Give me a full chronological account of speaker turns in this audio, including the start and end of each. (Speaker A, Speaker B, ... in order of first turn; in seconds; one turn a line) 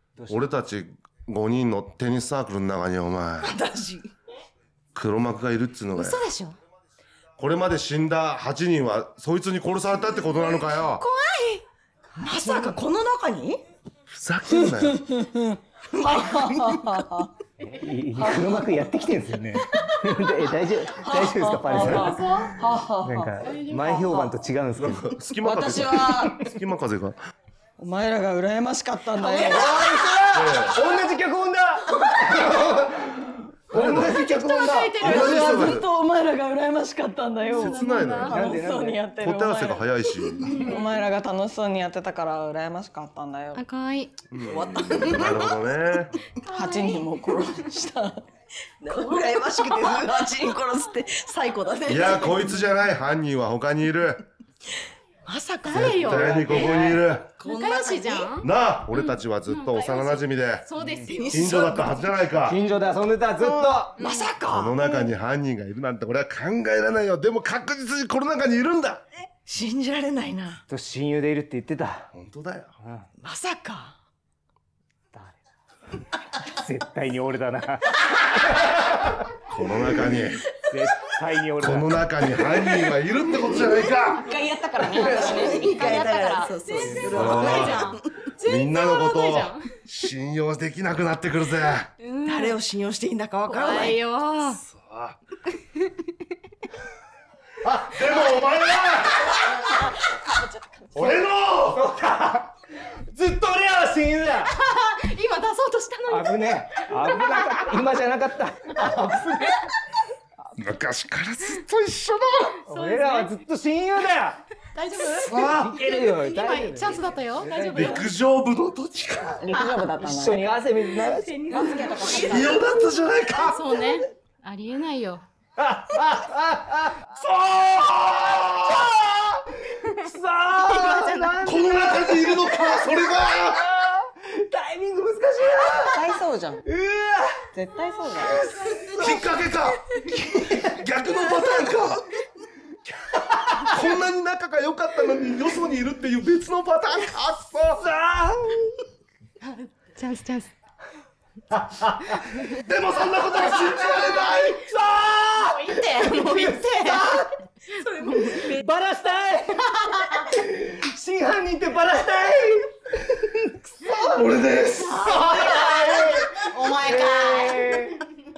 Speaker A: 0.1-0.5
Speaker B: 0.3-3.5
Speaker C: 3.4-4.1
Speaker B: 4.9-6.2
Speaker D: 5.9-6.5
Speaker B: 7.4-11.0
Speaker D: 10.8-11.6
Speaker C: 12.2-13.6
Speaker B: 14.1-15.0
Speaker E: 14.9-17.3
Speaker C: 15.9-16.8
Speaker A: 17.6-22.2
Speaker E: 18.2-18.8
Speaker E: 21.0-24.3
Speaker D: 21.7-22.2
Speaker A: 23.0-25.1
Speaker B: 24.8-27.2
Speaker E: 25.4-26.4
Speaker A: 25.9-26.4
Speaker E: 27.8-30.2
Speaker A: 29.2-35.0
Speaker B: 30.3-30.8
Speaker B: 33.7-34.2
Speaker D: 33.8-35.7
Speaker B: 35.0-35.9
Speaker E: 35.0-43.6
Speaker D: 37.5-38.3
Speaker B: 37.5-38.4
Speaker A: 38.3-39.0
Speaker B: 39.2-40.6
Speaker D: 40.4-40.8
Speaker D: 43.5-44.1
Speaker B: 44.3-46.1
Speaker C: 44.4-45.5
Speaker E: 46.5-48.2
Speaker D: 46.5-47.1
Speaker C: 48.8-52.4
Speaker D: 48.9-50.0
Speaker B: 51.9-54.2
Speaker C: 55.3-58.4
Speaker D: 55.6-62.1
Speaker B: 55.7-57.3
Speaker A: 56.1-57.0
Speaker B: 58.4-60.7
Speaker A: 60.8-61.1
Speaker C: 61.1-62.0
Speaker B: 61.3-62.6
Speaker A: 62.4-64.0
Speaker C: 63.4-65.1
Speaker D: 64.0-64.3
Speaker B: 64.5-69.0
Speaker C: 69.4-70.6
Speaker A: 70.7-72.1
Speaker B: 72.1-72.7
Speaker C: 73.2-74.0
Speaker A: 75.1-75.4
Speaker A: 76.4-79.2
Speaker B: 79.5-80.4
Speaker A: 80.6-82.0
Speaker B: 81.6-84.3
Speaker E: 83.5-85.9
Speaker C: 84.9-88.0
Speaker D: 85.1-89.7
Speaker B: 87.1-91.9
Speaker D: 92.0-92.5
Speaker C: 92.2-94.0
Speaker D: 93.4-94.6
Speaker B: 94.5-95.2
Speaker A: 97.6-98.2
Speaker B: 97.7-99.5
Speaker E: 99.5-101.2
Speaker B: 100.9-101.8
Speaker A: 101.7-104.5
Speaker D: 104.4-107.8
Speaker A: 106.1-109.6
Speaker B: 110.6-112.5
Speaker D: 112.7-113.3
Speaker A: 112.7-114.4
Speaker D: 114.7-118.1
Speaker A: 115.2-118.0
Speaker B: 117.7-119.4
Speaker E: 119.4-120.5
Speaker A: 120.0-122.2
Speaker D: 121.0-125.2
Speaker E: 121.5-122.7
Speaker B: 122.2-123.8
Speaker A: 125.6-132.6
Speaker B: 127.3-128.9
Speaker D: 130.5-131.7
Speaker B: 131.4-133.6
Speaker A: 133.3-136.0
Speaker E: 135.8-136.6
Speaker A: 136.6-137.5
Speaker E: 137.5-138.4
Speaker A: 138.1-140.8
Speaker B: 139.0-139.8
Speaker B: 140.3-142.1
Speaker A: 143.3-143.7
Speaker B: 143.6-147.9
Speaker A: 147.8-148.8
Speaker D: 149.4-150.5
Speaker A: 151.5-152.2
Speaker B: 152.4-154.6
Speaker A: 153.3-157.3
Speaker D: 155.3-157.2
Speaker D: 157.7-158.5
Speaker C: 157.8-158.6
Speaker A: 158.2-164.0
Speaker B: 163.8-165.7
Speaker D: 164.0-164.2
Speaker D: 165.0-167.7
Speaker A: 165.1-168.0